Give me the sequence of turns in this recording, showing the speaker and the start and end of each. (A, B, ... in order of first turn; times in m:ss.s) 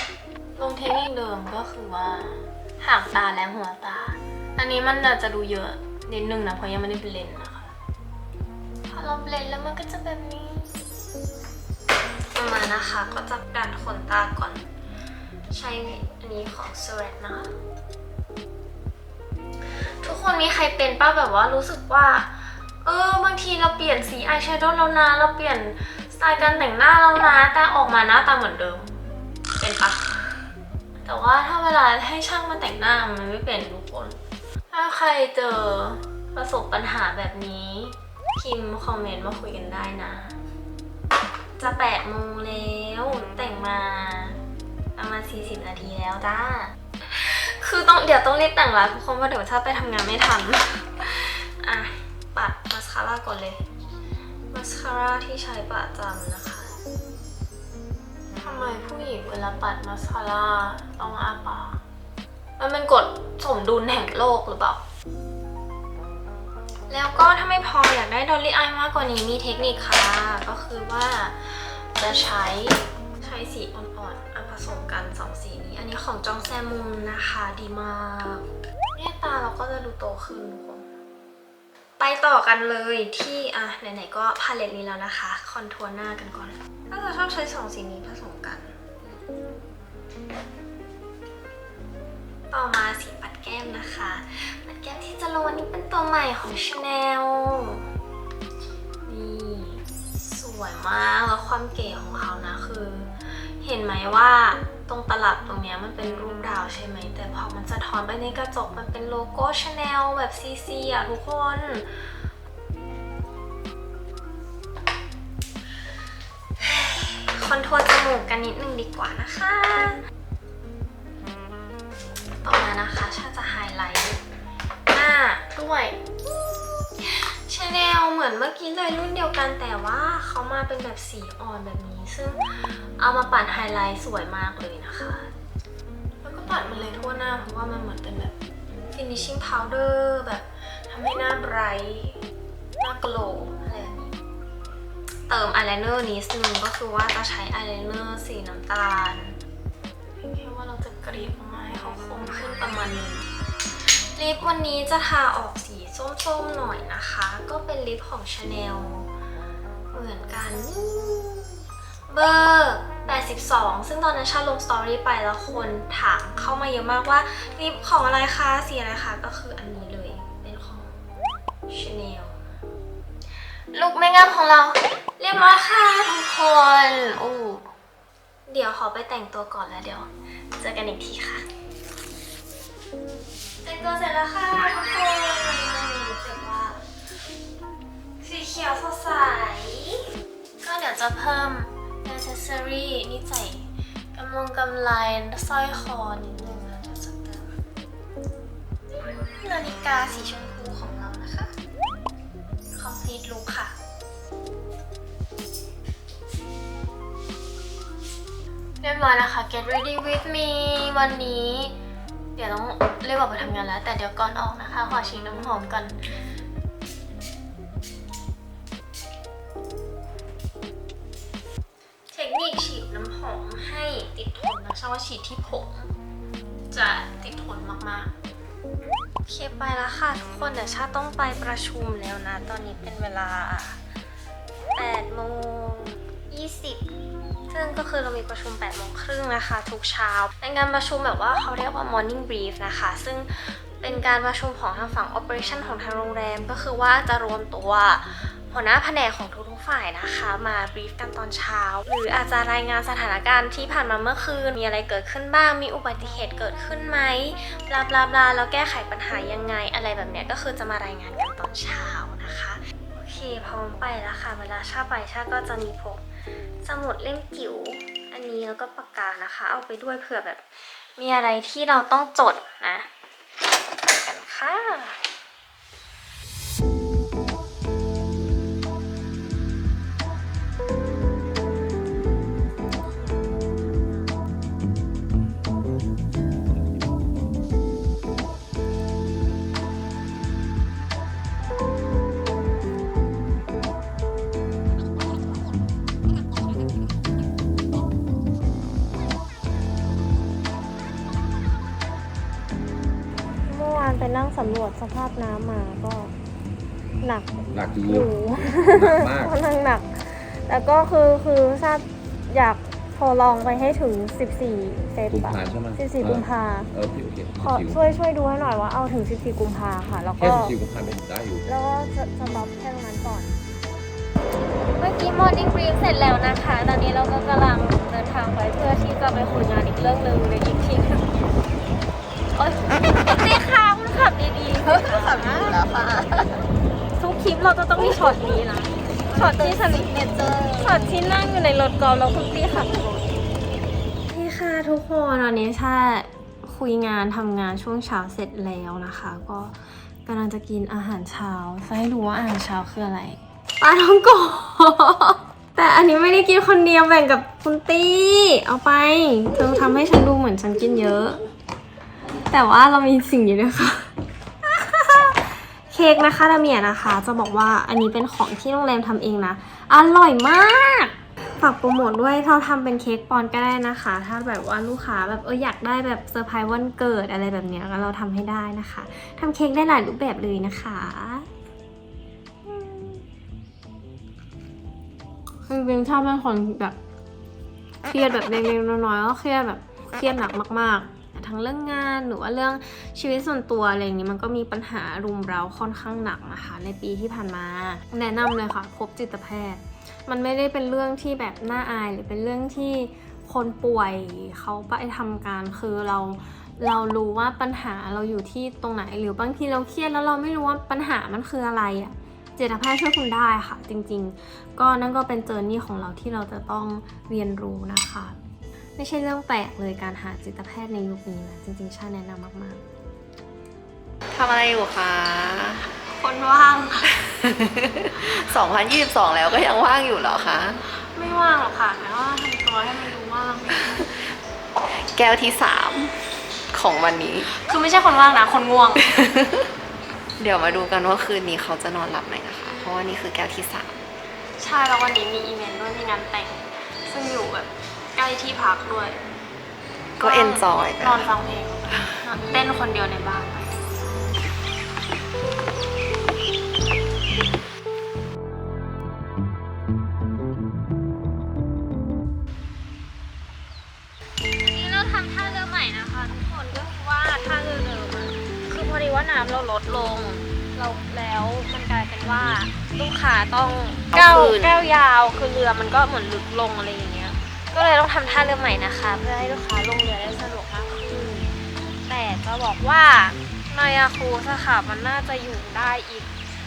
0:00.6-0:07.7 A
0:08.9-0:10.8 A
0:12.3-0:14.6 A
0:15.5-0:17.5 A
0:19.8-0:29.0 A
0:29.6-0:30.4 A
0:31.0-0:34.2 A
0:34.7-0:40.4 A
0:41.6-0:44.4 A
0:45.0-0:53.6 A
0:54.5-0:56.8 A
0:58.4-1:01.8 A
1:02.6-1:04.8 A
1:06.9-1:20.9 A
1:22.0-1:29.2 A
1:32.5-1:37.9 A
1:39.0-1:51.9 A
1:56.6-2:00.0 A
2:02.4-2:04.2 A
2:04.9-2:06.0 A
2:07.0-2:15.3 A
2:16.2-2:22.2 A
2:22.8-2:24.2 A
2:25.3-2:29.4 A
2:30.1-2:33.3 A
2:33.8-2:39.1 A
2:39.9-2:51.2 A
2:51.7-2:52.4 A
2:53.7-2:57.7 A
2:58.5-3:01.5 A
3:03.6-3:06.8 A
3:08.2-3:10.1 A
3:10.6-3:17.6 A
3:18.9-3:21.5 A
3:22.8-3:23.8 A
3:28.8-3:31.8 A
3:32.4-3:36.0 A
3:42.1-3:45.9 A
3:46.7-3:48.1 A
3:49.3-3:53.8 A
3:54.8-3:56.9 A
3:57.5-4:26.0 A
4:26.6-4:30.4 A
4:31.0-4:32.9 A
4:33.9-4:35.0 A
5:03.5-5:06.1 A
5:07.0-5:16.7 A
5:07.5-5:09.3 B
5:15.1-5:17.8 B
5:17.4-5:20.6 A
5:20.2-5:21.5 B
5:21.4-5:23.4 A
5:24.8-5:31.1 A
5:32.4-5:36.4 A
5:34.8-5:35.9 C
5:37.0-5:39.9 A
5:39.0-5:41.0 C
5:40.6-5:42.8 A
5:44.1-6:01.2 A
6:02.3-6:03.9 A
6:04.4-6:21.3 A
6:22.4-6:23.1 A
6:25.5-6:26.8 A
6:27.8-6:58.2 A
6:58.8-7:02.6 A
7:04.1-7:05.7 C
7:05.8-7:07.1 A
7:07.1-7:10.6 C
7:10.7-7:13.9 A
7:14.7-7:16.0 C
7:16.5-7:17.3 C
7:17.2-7:18.8 A
7:18.8-7:19.5 C
7:20.2-7:23.8 C
7:24.4-7:29.0 A
7:30.0-7:33.8 A
7:30.0-7:31.1 C
7:44.4-8:01.3 A
7:53.9-7:54.6 C
8:01.9-8:06.1 A